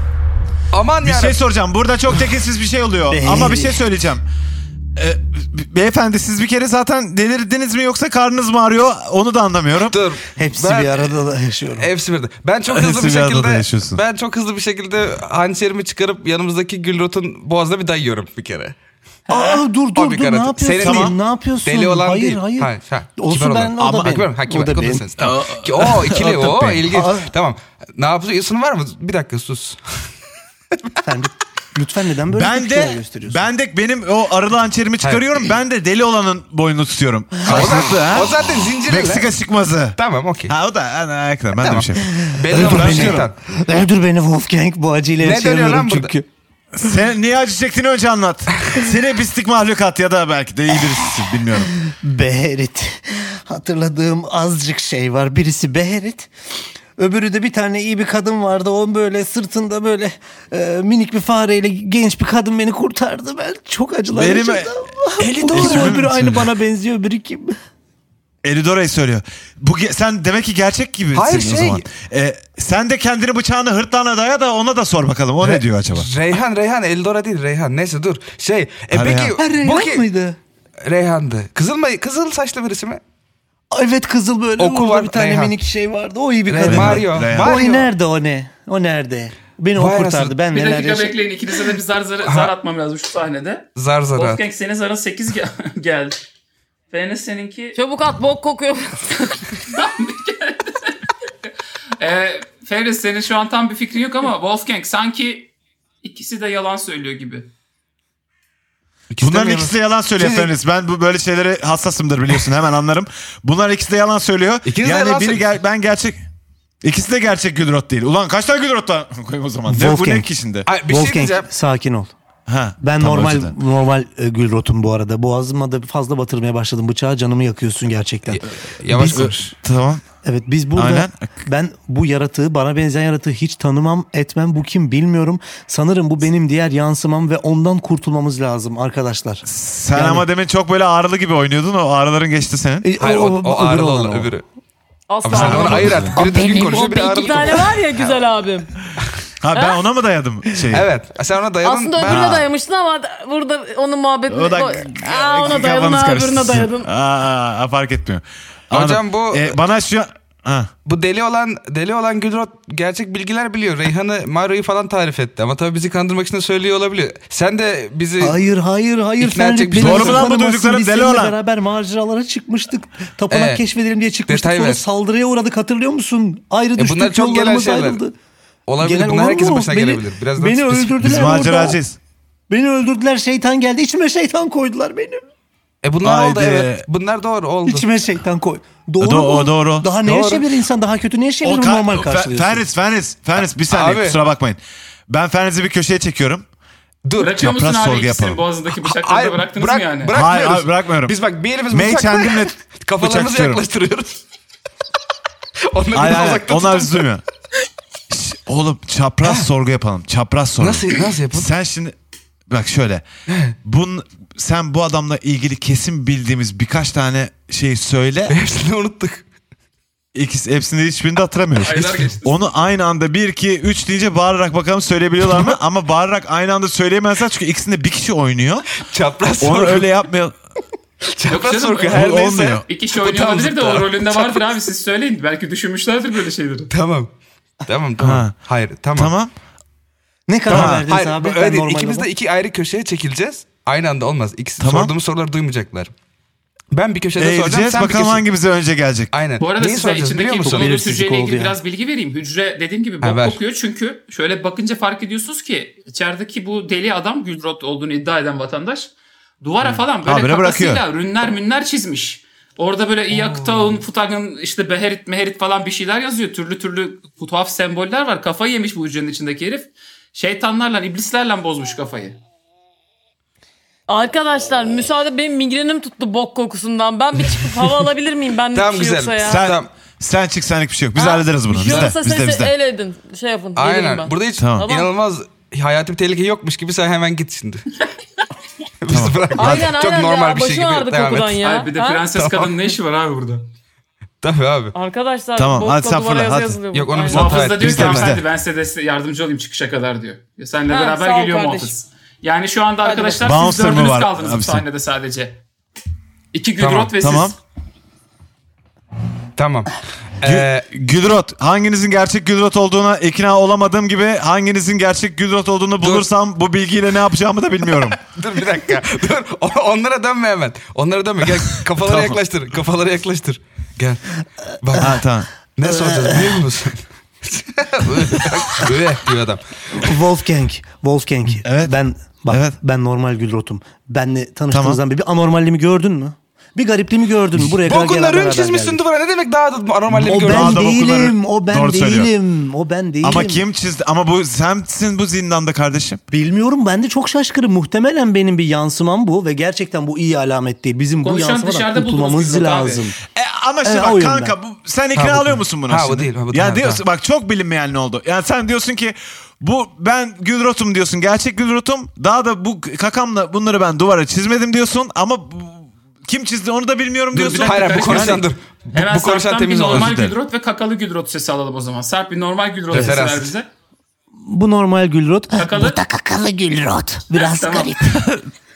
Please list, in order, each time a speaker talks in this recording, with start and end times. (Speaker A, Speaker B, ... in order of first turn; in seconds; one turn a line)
Speaker A: 0.7-1.4
Speaker B: 1.0-4.2
Speaker C: 3.1-3.8
Speaker B: 5.0-10.0
Speaker A: 9.9-11.1
Speaker C: 10.3-11.9
Speaker A: 11.8-18.8
Speaker B: 12.7-14.0
Speaker A: 19.3-29.8
Speaker C: 19.3-25.1
Speaker B: 20.8-21.1
Speaker B: 25.2-26.9
Speaker C: 26.9-27.3
Speaker C: 31.0-33.5
Speaker B: 32.3-43.3
Speaker A: 35.0-35.3
Speaker A: 37.5-39.3
Speaker A: 40.0-40.5
Speaker A: 41.6-43.4
Speaker C: 42.0-46.3
Speaker A: 45.2-46.1
Speaker B: 46.7-51.7
Speaker C: 51.7-56.3
Speaker C: 57.0-67.6
Speaker B: 64.1-66.5
Speaker A: 65.5-66.0
Speaker B: 68.4-76.1
Speaker A: 71.1-71.9
Speaker A: 75.4-80.0
Speaker B: 78.9-79.4
Speaker C: 79.4-80.4
Speaker A: 80.8-83.0
Speaker C: 83.7-91.2
Speaker A: 84.6-85.5
Speaker A: 86.5-87.9
Speaker B: 86.7-87.6
Speaker A: 89.8-90.4
Speaker D: 90.5-96.2
Speaker A: 92.2-92.5
Speaker A: 93.8-94.4
Speaker D: 96.9-97.8
Speaker E: 97.7-99.5
Speaker D: 99.7-100.9
Speaker D: 101.5-105.5
Speaker D: 106.0-107.5
Speaker A: 109.1-110.5
Speaker B: 109.2-116.2
Speaker A: 114.6-115.4
Speaker B: 116.8-120.7
Speaker C: 119.7-120.3
Speaker A: 120.7-121.5
Speaker C: 120.8-122.1
Speaker B: 122.5-123.5
Speaker C: 122.8-129.2
Speaker A: 128.3-129.5
Speaker B: 128.9-130.0
Speaker C: 130.2-140.2
Speaker B: 130.8-131.1
Speaker B: 139.4-142.9
Speaker C: 142.8-144.3
Speaker A: 143.0-144.4
Speaker E: 145.1-148.7
Speaker B: 145.2-146.2
Speaker A: 145.2-148.1
Speaker B: 149.4-150.9
Speaker E: 149.6-149.8
Speaker A: 150.7-152.4
Speaker E: 151.6-156.9
Speaker B: 152.1-152.4
Speaker B: 154.3-160.7
Speaker A: 158.7-159.6
Speaker A: 160.9-168.4
Speaker C: 168.2-178.1
Speaker A: 169.2-170.3
Speaker B: 169.8-171.3
Speaker A: 173.3-173.6
Speaker A: 174.3-174.8
Speaker A: 176.8-178.0
Speaker A: 178.7-181.4
Speaker C: 178.8-181.8
Speaker B: 181.0-182.0
Speaker C: 182.5-185.2
Speaker A: 185.8-187.8
Speaker B: 186.0-186.8
Speaker C: 187.7-192.6
Speaker B: 189.0-190.4
Speaker A: 190.1-190.4
Speaker B: 191.4-196.4
Speaker A: 193.7-194.2
Speaker A: 197.1-197.5
Speaker D: 197.2-200.2
Speaker B: 197.4-198.4
Speaker A: 198.7-204.2
Speaker B: 200.1-201.1
Speaker B: 201.7-203.6
Speaker A: 205.7-207.1
Speaker B: 205.9-207.2
Speaker B: 208.1-211.9
Speaker A: 209.2-209.5
Speaker A: 210.6-211.5
Speaker B: 212.5-213.0
Speaker A: 213.3-213.6
Speaker B: 213.6-218.4
Speaker A: 218.3-219.2
Speaker B: 220.1-228.7
Speaker D: 221.6-222.5
Speaker A: 228.8-229.9
Speaker B: 229.4-230.3
Speaker A: 231.1-234.5
Speaker D: 231.3-236.7
Speaker B: 231.9-232.6
Speaker A: 236.7-237.1
Speaker A: 237.7-239.1
Speaker B: 238.0-238.3
Speaker B: 238.9-239.3
Speaker C: 240.3-242.1
Speaker A: 240.5-245.9
Speaker B: 240.5-240.8
Speaker B: 244.6-244.9
Speaker A: 246.7-248.2
Speaker B: 247.2-249.1
Speaker A: 249.1-250.8
Speaker D: 249.4-272.2
Speaker C: 250.4-251.6
Speaker A: 253.0-253.4
Speaker B: 260.0-260.8
Speaker A: 263.1-263.8
Speaker E: 273.9-279.4
Speaker A: 277.4-277.7
Speaker A: 278.5-279.7
Speaker B: 279.2-282.5
Speaker E: 280.9-284.9
Speaker A: 283.6-287.7
Speaker B: 284.4-284.6
Speaker A: 288.8-291.4
Speaker B: 288.9-289.7
Speaker E: 289.3-292.1
Speaker D: 291.4-293.5
Speaker A: 292.1-292.7
Speaker A: 294.2-294.7
Speaker E: 294.7-297.6
Speaker B: 295.4-296.6
Speaker A: 296.7-298.2
Speaker D: 297.1-305.4
Speaker B: 297.6-298.2
Speaker E: 300.7-301.8
Speaker E: 302.8-303.3
Speaker B: 303.2-304.6
Speaker D: 306.3-307.4
Speaker A: 306.6-306.9
Speaker B: 306.6-307.3
Speaker A: 309.4-310.7
Speaker B: 310.2-318.0
Speaker A: 315.8-316.1
Speaker A: 317.9-329.9
Speaker B: 321.8-322.2
Speaker B: 324.8-325.3
Speaker C: 325.6-326.4
Speaker C: 329.7-338.8
Speaker B: 331.4-331.7
Speaker B: 332.3-332.6
Speaker B: 334.5-334.8
Speaker A: 337.6-340.7
Speaker B: 339.9-342.1
Speaker C: 340.1-343.4
Speaker B: 343.0-346.0
Speaker C: 346.1-353.0
Speaker D: 351.0-352.8
Speaker B: 353.1-368.2
Speaker C: 353.6-354.4
Speaker A: 354.9-356.8
Speaker A: 367.1-370.0
Speaker D: 367.1-373.5
Speaker B: 369.7-370.1
Speaker A: 372.7-373.3
Speaker C: 372.7-373.0
Speaker C: 374.2-378.1
Speaker D: 375.3-375.8
Speaker D: 377.2-377.9
Speaker B: 378.0-378.2